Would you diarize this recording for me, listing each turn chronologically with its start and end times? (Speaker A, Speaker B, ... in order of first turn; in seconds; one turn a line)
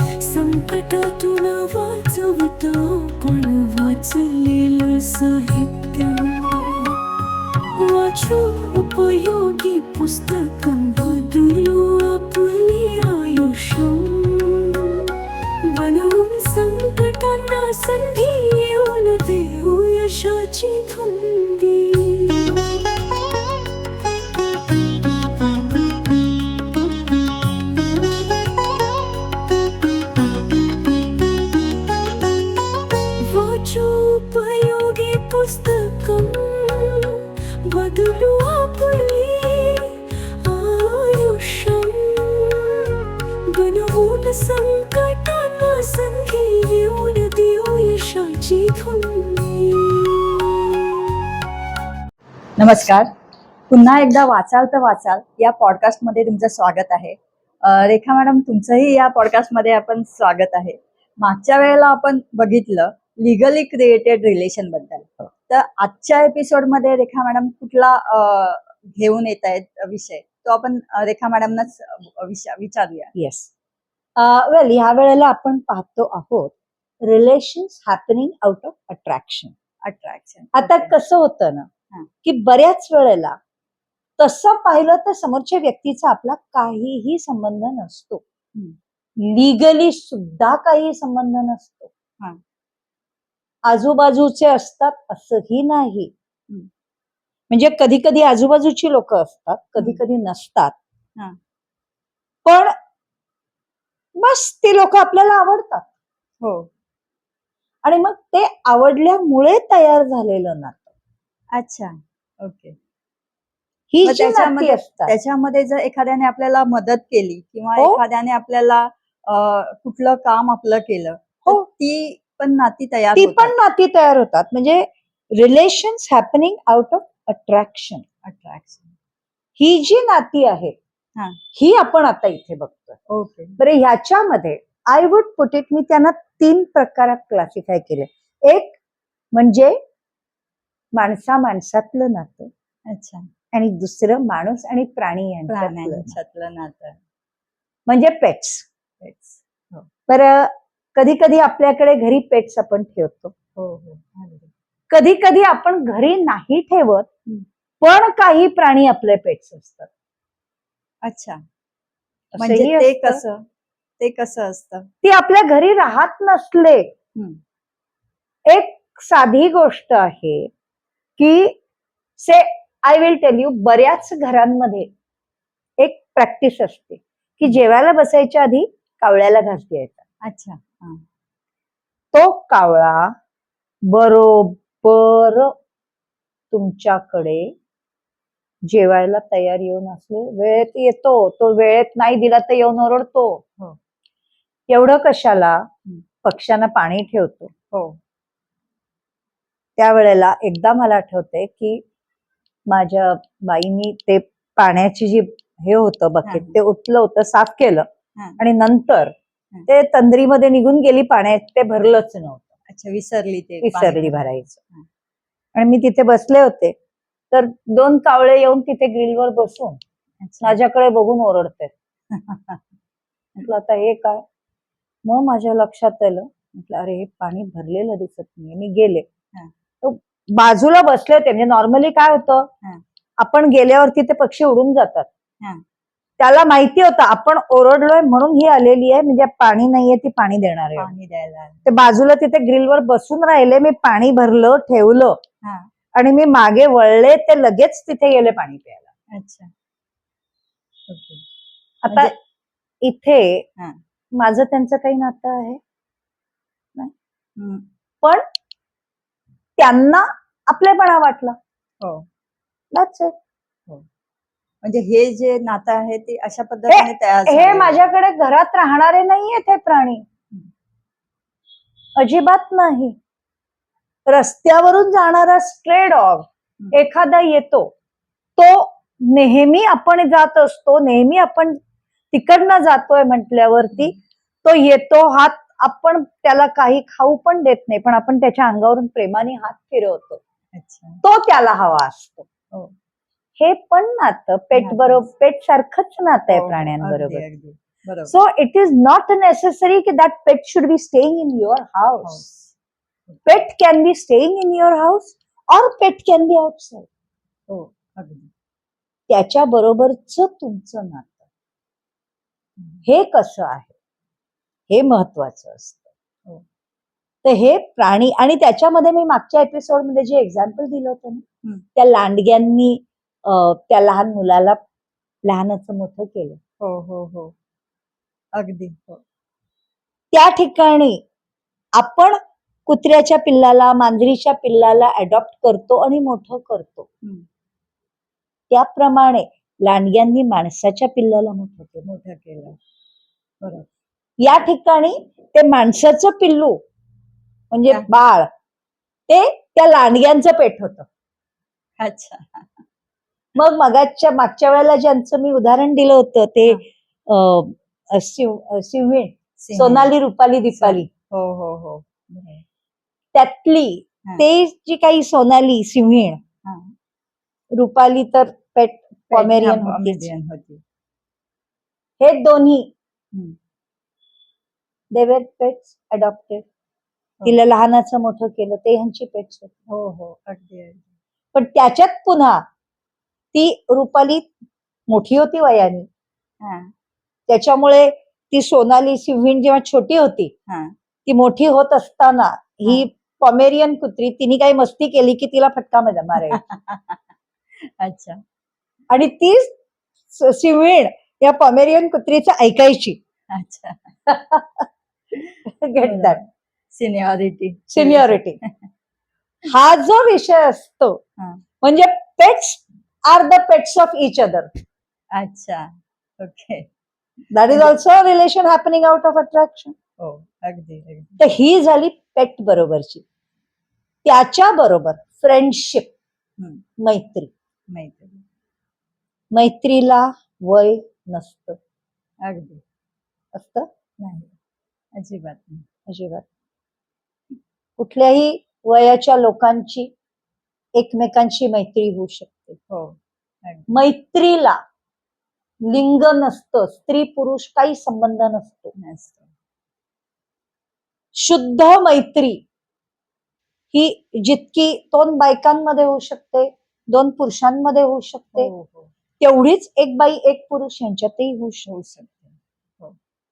Speaker A: 0.2-7.0
Speaker A: 7.8-22.7
Speaker A: 33.2-50.5
Speaker B: 52.6-53.1
Speaker B: 53.7-73.1
Speaker C: 73.2-73.5
Speaker C: 74.2-79.5
Speaker B: 79.8-80.9
Speaker C: 80.5-81.7
Speaker C: 82.2-83.4
Speaker C: 84.2-88.2
Speaker C: 89.2-91.9
Speaker C: 93.7-96.1
Speaker C: 97.5-100.8
Speaker C: 102.5-102.7
Speaker C: 104.2-105.9
Speaker B: 106.4-106.7
Speaker C: 107.8-110.9
Speaker B: 111.5-112.8
Speaker C: 113.9-115.2
Speaker B: 114.0-123.5
Speaker C: 123.2-128.1
Speaker B: 128.2-128.9
Speaker C: 129.6-130.8
Speaker C: 131.5-133.0
Speaker B: 133.1-133.6
Speaker C: 133.6-138.8
Speaker C: 139.3-139.8
Speaker C: 140.9-142.5
Speaker B: 142.9-143.3
Speaker C: 143.5-146.2
Speaker B: 145.5-147.0
Speaker C: 147.9-148.7
Speaker B: 149.0-149.9
Speaker C: 150.1-153.3
Speaker B: 153.6-154.5
Speaker C: 154.9-157.1
Speaker C: 157.8-159.9
Speaker B: 161.0-161.4
Speaker C: 162.3-163.2
Speaker B: 162.4-163.4
Speaker B: 164.0-164.9
Speaker C: 165.0-166.9
Speaker C: 168.5-170.5
Speaker C: 171.2-171.6
Speaker C: 172.2-174.9
Speaker C: 175.8-180.0
Speaker B: 180.2-181.0
Speaker C: 182.1-183.2
Speaker C: 183.9-185.6
Speaker C: 186.5-187.5
Speaker C: 188.7-193.4
Speaker C: 194.7-195.7
Speaker C: 196.2-197.5
Speaker B: 197.7-198.0
Speaker C: 199.8-201.8
Speaker C: 202.7-209.1
Speaker B: 206.3-206.6
Speaker C: 209.7-212.5
Speaker B: 212.7-214.9
Speaker C: 213.6-214.6
Speaker C: 215.6-216.8
Speaker C: 217.3-219.8
Speaker B: 220.2-220.6
Speaker C: 220.4-221.7
Speaker B: 222.1-222.6
Speaker C: 223.4-224.2
Speaker C: 225.1-229.1
Speaker C: 229.8-232.5
Speaker C: 233.2-235.1
Speaker C: 236.2-240.9
Speaker B: 240.8-241.7
Speaker C: 241.7-245.2
Speaker B: 245.4-245.7
Speaker C: 245.9-248.9
Speaker B: 249.1-249.5
Speaker B: 250.9-251.2
Speaker C: 251.8-252.1
Speaker B: 251.9-252.2
Speaker C: 252.8-253.5
Speaker C: 254.2-255.6
Speaker B: 257.4-257.7
Speaker C: 259.6-261.4
Speaker B: 261.8-262.1
Speaker C: 262.7-263.1
Speaker B: 264.6-267.9
Speaker C: 266.7-270.1
Speaker C: 272.0-273.0
Speaker C: 274.1-277.7
Speaker C: 278.4-281.6
Speaker C: 282.1-290.2
Speaker B: 290.5-291.0
Speaker C: 291.0-292.3
Speaker C: 293.4-297.2
Speaker B: 294.6-295.1
Speaker B: 296.3-298.1
Speaker C: 298.1-302.2
Speaker B: 302.0-302.4
Speaker B: 303.1-303.4
Speaker C: 303.3-306.9
Speaker B: 307.5-308.3
Speaker C: 309.1-311.2
Speaker C: 312.9-313.7
Speaker C: 314.7-315.9
Speaker C: 317.2-321.2
Speaker C: 321.8-324.6
Speaker C: 325.2-326.4
Speaker B: 326.6-327.3
Speaker B: 328.3-329.0
Speaker C: 330.1-331.0
Speaker C: 331.8-336.9
Speaker C: 338.5-341.9
Speaker B: 341.9-342.6
Speaker B: 343.4-343.7
Speaker C: 344.2-346.6
Speaker C: 347.5-348.3
Speaker C: 349.1-350.9
Speaker B: 351.8-352.6
Speaker C: 353.4-360.9
Speaker B: 359.4-359.9
Speaker B: 360.5-362.4
Speaker C: 363.1-366.2
Speaker B: 366.4-366.7
Speaker C: 367.5-370.1
Speaker B: 369.1-370.6
Speaker C: 372.0-372.7
Speaker C: 374.9-376.4
Speaker C: 377.2-379.5
Speaker B: 379.7-380.9
Speaker C: 381.3-382.5
Speaker C: 383.3-384.3
Speaker C: 384.9-385.9
Speaker B: 386.4-386.7
Speaker C: 387.3-390.3
Speaker B: 390.5-390.7
Speaker C: 391.1-396.4
Speaker B: 396.2-397.0
Speaker B: 397.6-398.2
Speaker C: 398.9-399.5
Speaker C: 400.1-403.0
Speaker B: 403.3-403.9
Speaker C: 404.1-404.6
Speaker C: 405.5-406.2
Speaker B: 405.8-408.5
Speaker C: 407.7-408.4
Speaker C: 409.5-411.0
Speaker C: 411.6-414.5
Speaker B: 415.1-415.7
Speaker B: 416.2-416.7
Speaker C: 417.3-419.8
Speaker B: 420.0-421.2
Speaker C: 421.2-423.0
Speaker C: 424.0-425.9
Speaker B: 426.4-426.6
Speaker C: 426.8-427.3
Speaker B: 427.7-428.2
Speaker C: 429.3-431.6
Speaker B: 432.2-432.6
Speaker C: 433.3-433.7
Speaker B: 434.0-434.3
Speaker B: 434.9-435.6
Speaker C: 435.9-436.2
Speaker C: 437.8-439.9
Speaker C: 440.8-442.6
Speaker B: 442.7-443.7
Speaker C: 443.7-444.6
Speaker C: 445.6-448.7
Speaker B: 448.8-449.3
Speaker C: 451.1-452.4
Speaker C: 453.7-458.5
Speaker B: 458.4-458.9
Speaker C: 459.2-461.7
Speaker B: 461.7-462.9